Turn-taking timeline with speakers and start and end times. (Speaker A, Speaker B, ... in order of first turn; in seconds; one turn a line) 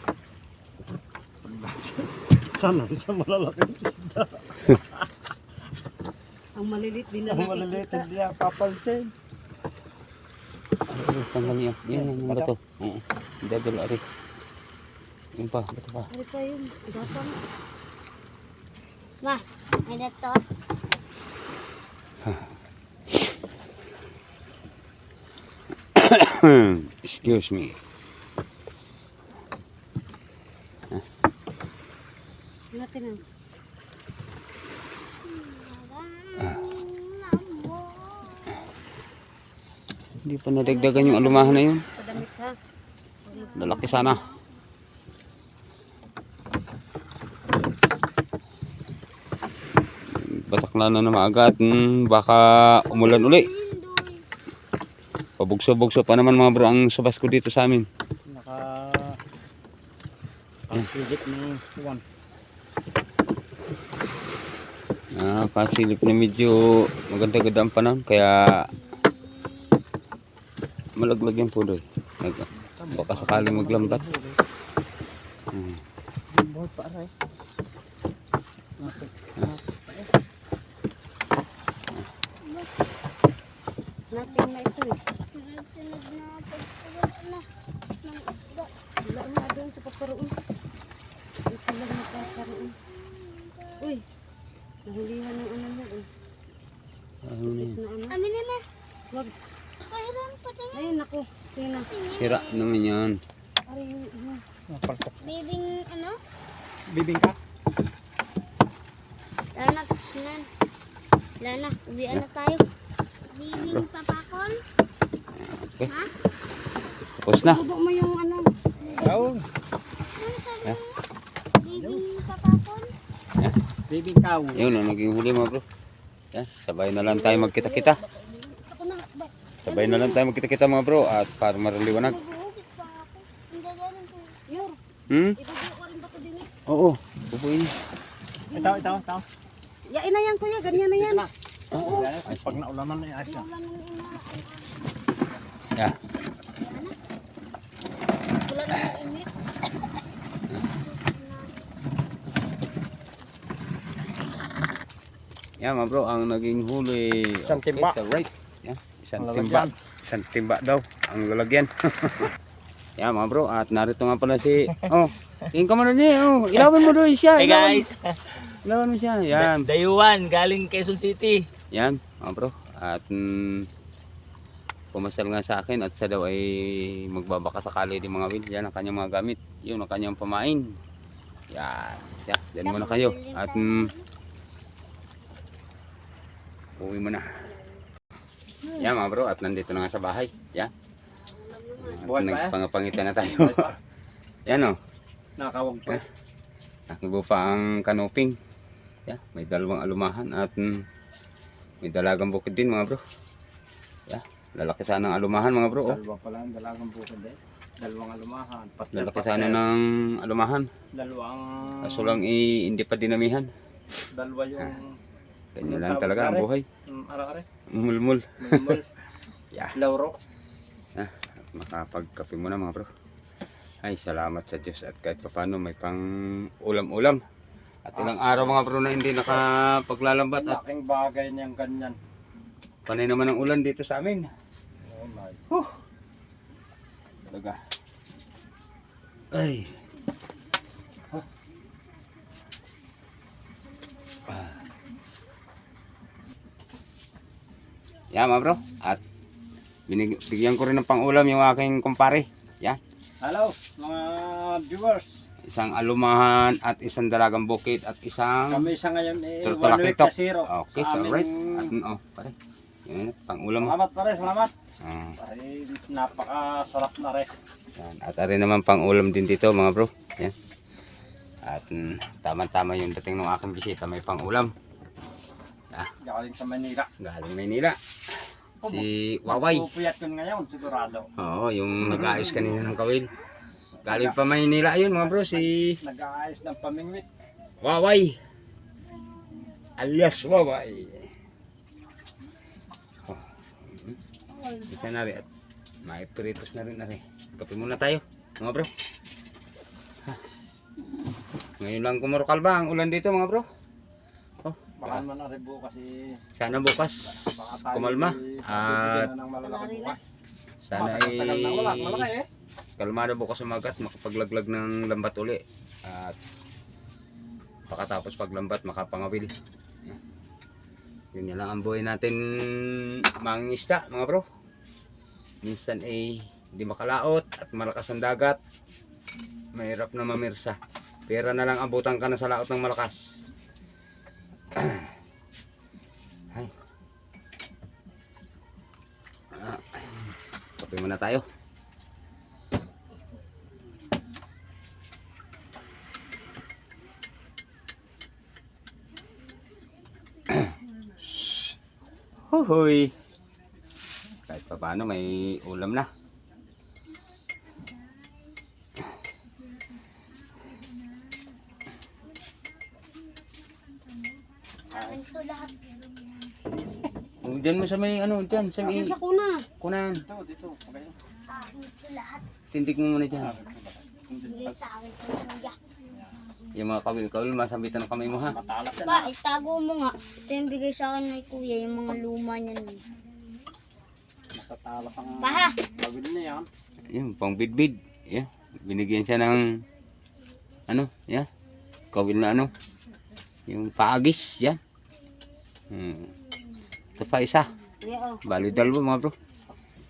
Speaker A: 1.4-5.1
Speaker B: 6.5-8.1
Speaker A: 7.2-9.1
Speaker C: 10.9-14.0
Speaker A: 11.9-12.5
Speaker C: 15.4-16.1
Speaker B: 16.1-17.4
Speaker D: 19.2-20.4
Speaker C: 22.2-22.5
Speaker C: 25.9-27.8
Speaker B: 32.7-33.2
Speaker D: 35.2-38.6
Speaker C: 40.2-41.8
Speaker B: 40.6-42.5
Speaker B: 43.3-43.8
Speaker D: 43.3-44.4
Speaker C: 43.6-44.2
Speaker C: 50.2-53.5
Speaker D: 52.9-54.2
Speaker C: 55.4-57.9
Speaker A: 58.3-59.2
Speaker A: 60.7-62.0
Speaker C: 65.2-68.7
Speaker C: 71.0-74.0
Speaker A: 72.5-74.4
Speaker C: 75.5-75.8
Speaker A: 76.3-77.1
Speaker A: 78.8-80.1
Speaker D: 82.4-82.7
Speaker B: 84.1-85.0
Speaker D: 84.1-84.5
Speaker D: 85.2-87.5
Speaker D: 88.0-88.7
Speaker B: 89.0-90.4
Speaker B: 91.5-92.7
Speaker D: 92.1-93.9
Speaker B: 94.8-96.1
Speaker C: 97.2-97.8
Speaker B: 97.6-98.2
Speaker D: 98.1-98.6
Speaker D: 99.9-100.9
Speaker B: 100.7-101.9
Speaker D: 101.9-102.8
Speaker C: 102.2-103.2
Speaker B: 103.7-104.4
Speaker A: 104.7-105.3
Speaker D: 105.2-106.2
Speaker A: 106.9-107.4
Speaker D: 109.5-110.5
Speaker D: 111.4-112.6
Speaker D: 113.3-114.6
Speaker C: 113.6-113.9
Speaker C: 115.4-115.9
Speaker D: 115.8-116.1
Speaker C: 117.2-117.6
Speaker B: 117.4-119.3
Speaker A: 118.8-119.4
Speaker D: 120.0-121.0
Speaker D: 121.6-122.9
Speaker A: 121.7-122.0
Speaker A: 123.9-124.6
Speaker C: 124.5-125.6
Speaker C: 126.3-128.0
Speaker B: 127.0-130.2
Speaker C: 129.6-132.2
Speaker D: 132.0-134.5
Speaker B: 134.5-134.8
Speaker C: 135.1-135.4
Speaker B: 135.4-136.5
Speaker C: 136.7-137.7
Speaker B: 138.5-139.0
Speaker A: 138.5-139.2
Speaker B: 139.9-142.0
Speaker A: 140.7-143.4
Speaker C: 141.9-142.6
Speaker D: 143.2-144.8
Speaker B: 143.5-144.3
Speaker D: 146.6-146.9
Speaker D: 148.4-149.3
Speaker D: 150.7-151.5
Speaker C: 155.6-162.3
Speaker A: 157.4-157.9
Speaker A: 159.2-159.7
Speaker C: 163.0-167.9
Speaker E: 167.4-168.1
Speaker C: 168.5-169.7
Speaker E: 169.4-171.4
Speaker C: 171.7-173.6
Speaker C: 174.9-180.6
Speaker C: 181.5-183.9
Speaker D: 182.6-184.0
Speaker C: 186.8-187.3
Speaker C: 188.7-190.7
Speaker D: 191.3-192.0
Speaker C: 191.8-193.7
Speaker A: 192.0-192.6
Speaker A: 193.3-193.7
Speaker C: 194.5-194.8
Speaker A: 195.4-196.0
Speaker C: 196.9-198.3
Speaker C: 199.1-200.8
Speaker C: 201.8-203.0
Speaker C: 204.1-206.0
Speaker A: 205.8-209.6
Speaker C: 208.9-210.7
Speaker A: 210.9-212.2
Speaker C: 211.8-213.5
Speaker A: 214.1-214.9
Speaker C: 215.6-216.6
Speaker A: 215.6-217.4
Speaker C: 217.7-218.6
Speaker A: 218.4-218.9
Speaker A: 219.7-220.2
Speaker C: 220.9-222.9
Speaker C: 223.8-226.0
Speaker C: 226.6-227.2
Speaker C: 227.8-230.6
Speaker A: 227.9-228.6
Speaker A: 230.3-232.0
Speaker C: 232.9-234.3
Speaker A: 234.8-235.4
Speaker C: 237.3-237.6
Speaker C: 239.3-239.7
Speaker C: 248.1-249.0
Speaker C: 249.9-252.8
Speaker A: 253.2-255.2
Speaker C: 255.5-258.7
Speaker A: 258.5-261.7
Speaker C: 259.4-262.3
Speaker C: 262.9-263.8
Speaker A: 263.6-264.5
Speaker C: 264.8-265.2
Speaker A: 265.2-267.3
Speaker C: 267.8-270.3
Speaker C: 271.4-274.5
Speaker A: 276.0-276.9
Speaker C: 277.0-277.8
Speaker A: 278.6-281.1
Speaker C: 278.6-279.6
Speaker C: 281.2-283.1
Speaker A: 283.8-284.2
Speaker C: 283.8-285.8
Speaker A: 284.9-287.1
Speaker C: 287.6-288.2
Speaker C: 289.8-291.1
Speaker C: 293.1-294.0
Speaker C: 294.7-295.2
Speaker C: 295.9-298.7
Speaker C: 301.6-303.4
Speaker C: 304.4-305.0
Speaker A: 304.8-306.0
Speaker C: 306.4-307.1
Speaker A: 307.1-310.0
Speaker C: 307.7-309.1
Speaker B: 309.4-309.9
Speaker C: 310.6-312.1
Speaker A: 310.7-312.3
Speaker C: 312.8-316.1
Speaker C: 317.7-319.3
Speaker C: 321.1-324.2
Speaker C: 325.4-328.4
Speaker C: 329.5-330.6
Speaker C: 331.1-333.0
Speaker C: 334.6-334.9
Speaker C: 339.3-339.9
Speaker C: 340.6-341.2
Speaker C: 352.3-352.9
Speaker C: 354.3-355.9
Speaker D: 364.7-365.6
Speaker A: 364.7-365.0
Speaker C: 367.2-368.9
Speaker A: 368.4-368.9
Speaker B: 368.7-369.4
Speaker C: 369.6-370.0
Speaker A: 370.0-370.9
Speaker D: 371.3-372.2
Speaker C: 372.5-373.3
Speaker A: 373.1-374.6
Speaker D: 374.2-375.6
Speaker C: 376.5-378.3
Speaker A: 378.2-379.1
Speaker D: 378.9-382.8
Speaker A: 384.3-386.5
Speaker D: 385.2-385.6
Speaker C: 386.9-389.4
Speaker C: 390.7-391.3
Speaker C: 391.9-392.5
Speaker C: 393.5-394.6
Speaker C: 395.7-396.1
Speaker C: 397.0-397.5
Speaker B: 397.8-398.2
Speaker C: 398.2-399.1